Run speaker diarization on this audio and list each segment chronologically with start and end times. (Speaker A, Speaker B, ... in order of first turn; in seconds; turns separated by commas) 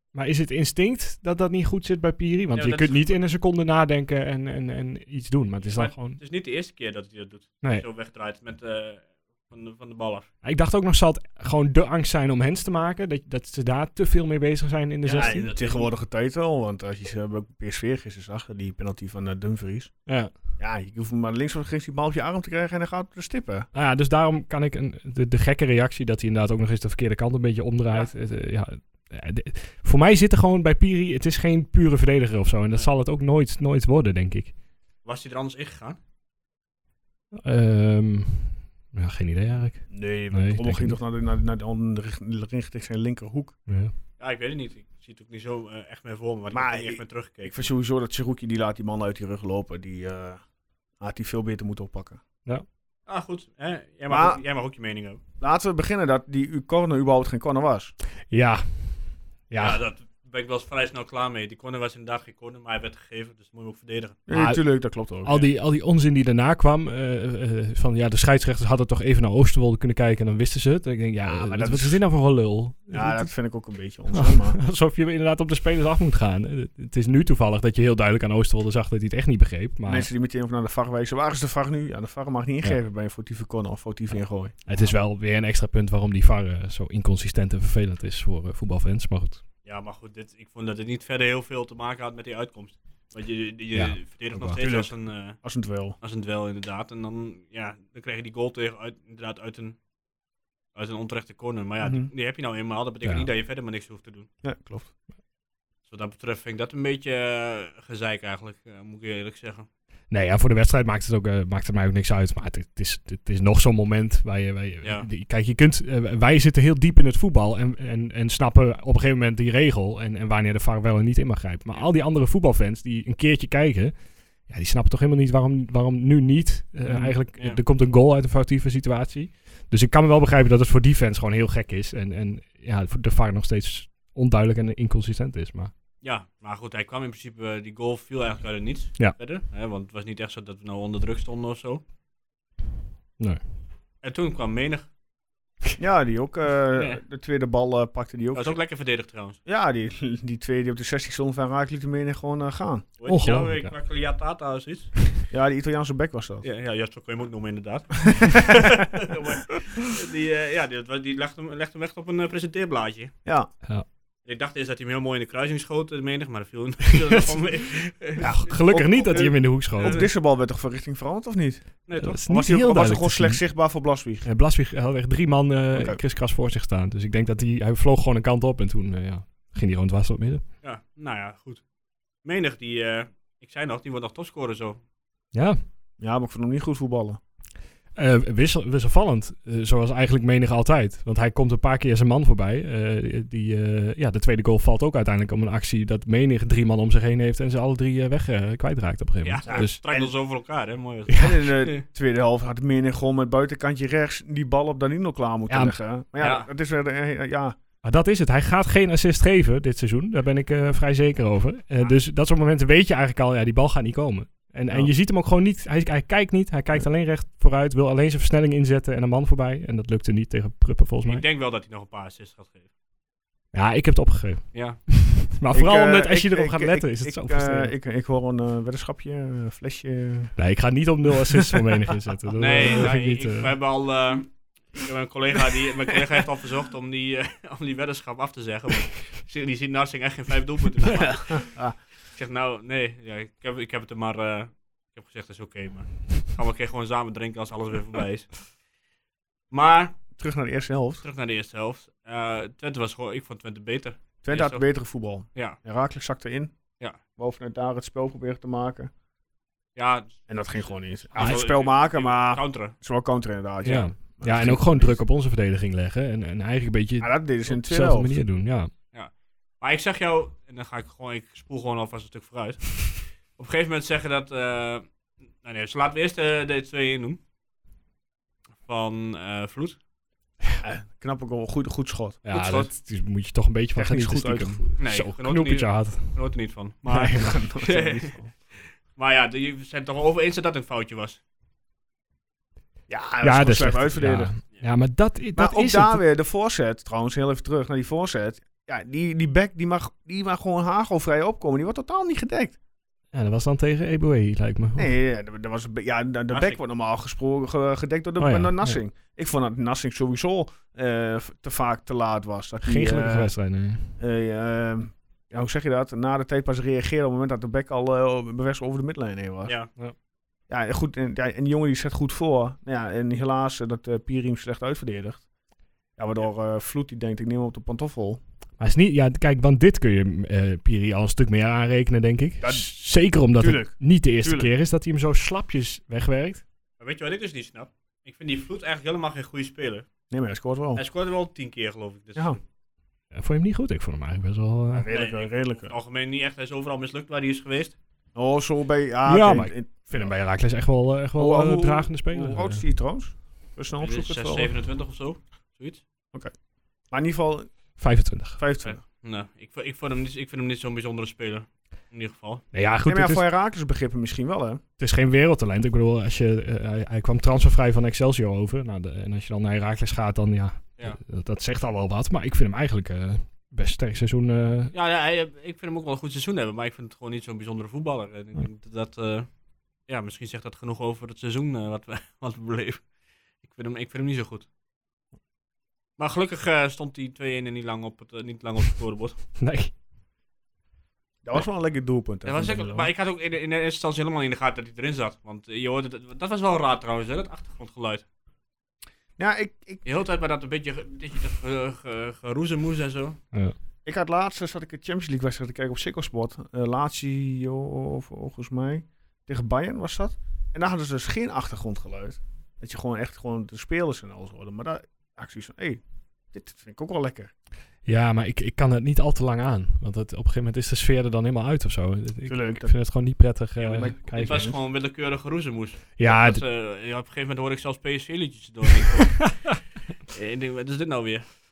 Speaker A: 0.1-6.2, Speaker B: 2.5-3.2, Speaker B: 5.7-10.3, Speaker A: 10.4-15.5, Speaker B: 15.0-15.9, Speaker C: 15.1-19.9, Speaker A: 20.1-20.3, Speaker C: 20.6-23.7, Speaker A: 23.7-34.5, Speaker B: 35.0-36.0, Speaker A: 37.3-41.0, Speaker C: 39.9-43.6, Speaker A: 43.7-43.9, Speaker B: 44.2-47.7, Speaker C: 46.5-50.4, Speaker C: 51.0-52.2, Speaker B: 53.1-55.2, Speaker C: 54.1-54.4, Speaker C: 55.4-57.9, Speaker A: 58.3-59.8, Speaker B: 59.5-64.2, Speaker C: 64.3-65.4, Speaker A: 64.3-64.6, Speaker A: 65.2-73.3, Speaker C: 71.2-72.0, Speaker C: 72.9-74.6, Speaker A: 74.1-80.1, Speaker C: 79.8-84.9, Speaker A: 84.7-89.4, Speaker B: 89.6-95.4, Speaker A: 93.7-94.6, Speaker C: 94.6-96.0, Speaker B: 96.0-99.8, Speaker B: 100.7-104.3, Speaker C: 101.8-102.1, Speaker A: 103.0-103.3, Speaker C: 104.4-104.9, Speaker B: 105.8-109.7, Speaker A: 110.1-135.7, Speaker B: 114.8-115.1, Speaker B: 126.9-127.6, Speaker B: 136.0-141.8, Speaker B: 144.0-144.9, Speaker C: 145.8-148.6, Speaker B: 148.3-149.4, Speaker C: 149.4-152.8, Speaker B: 153.0-155.2, Speaker A: 153.1-153.7, Speaker C: 155.3-156.4, Speaker B: 156.4-163.1, Speaker C: 163.2-163.5, Speaker B: 164.2-170.1, Speaker C: 168.2-171.7, Speaker A: 168.2-170.0, Speaker B: 171.9-172.2, Speaker A: 172.0-173.4, Speaker C: 172.2-174.2, Speaker A: 174.2-180.4, Speaker C: 175.7-176.0, Speaker B: 180.6-181.6, Speaker B: 182.2-184.8, Speaker A: 185.3-185.6, Speaker C: 186.0-187.2, Speaker A: 187.9-199.8, Speaker B: 199.2-201.8, Speaker C: 199.4-200.1, Speaker C: 201.1-207.6, Speaker A: 205.5-205.8, Speaker B: 206.2-206.5, Speaker A: 207.8-221.2, Speaker B: 221.0-222.7, Speaker A: 223.5-227.7, Speaker B: 224.5-224.8, Speaker C: 225.5-230.3, Speaker A: 230.4-233.5, Speaker B: 232.3-241.5, Speaker C: 241.3-241.7, Speaker B: 242.1-248.5, Speaker B: 249.5-250.0, Speaker C: 250.1-251.0, Speaker B: 251.0-254.6, Speaker C: 254.2-256.5, Speaker C: 257.1-258.9, Speaker B: 259.8-262.8, Speaker C: 260.3-265.0, Speaker A: 263.6-268.7, Speaker C: 267.0-268.1, Speaker B: 268.9-274.9, Speaker B: 275.4-277.2, Speaker B: 278.6-279.8, Speaker C: 280.6-282.2, Speaker A: 282.2-286.1, Speaker B: 282.3-282.7, Speaker C: 283.8-284.8, Speaker B: 284.8-291.2, Speaker C: 286.9-288.3, Speaker C: 292.9-294.3, Speaker A: 293.2-296.0, Speaker C: 295.3-302.6, Speaker A: 303.1-304.9, Speaker C: 304.8-313.3, Speaker B: 306.3-306.6, Speaker A: 308.2-308.8, Speaker A: 312.6-313.9, Speaker C: 314.0-319.5, Speaker C: 320.5-325.2, Speaker C: 326.0-328.2, Speaker A: 328.6-336.4, Speaker C: 332.4-332.7, Speaker C: 333.3-334.5, Speaker B: 336.8-339.9, Speaker C: 340.1-340.8, Speaker B: 340.8-342.4, Speaker A: 343.1-344.9, Speaker C: 344.7-345.7, Speaker B: 344.9-347.8, Speaker C: 348.1-350.1, Speaker A: 349.1-352.6, Speaker C: 351.2-354.5, Speaker B: 353.8-355.8, Speaker C: 356.9-357.5, Speaker A: 357.8-358.4, Speaker C: 358.4-358.8, Speaker B: 358.6-362.4, Speaker A: 362.5-363.2, Speaker C: 362.9-364.6, Speaker A: 364.8-374.7, Speaker B: 374.7-379.3, Speaker B: 379.9-382.8, Speaker B: 383.4-384.5, Speaker B: 386.0-389.2, Speaker A: 389.4-389.7, Speaker C: 391.2-392.9, Speaker B: 392.2-398.0, Speaker C: 399.2-399.8, Speaker B: 399.8-403.2, Speaker C: 403.8-417.3, Speaker A: 417.8-424.5, Speaker C: 422.2-422.7, Speaker B: 423.6-429.5, Speaker C: 423.7-424.6, Speaker A: 426.0-426.4, Speaker B: 430.1-431.2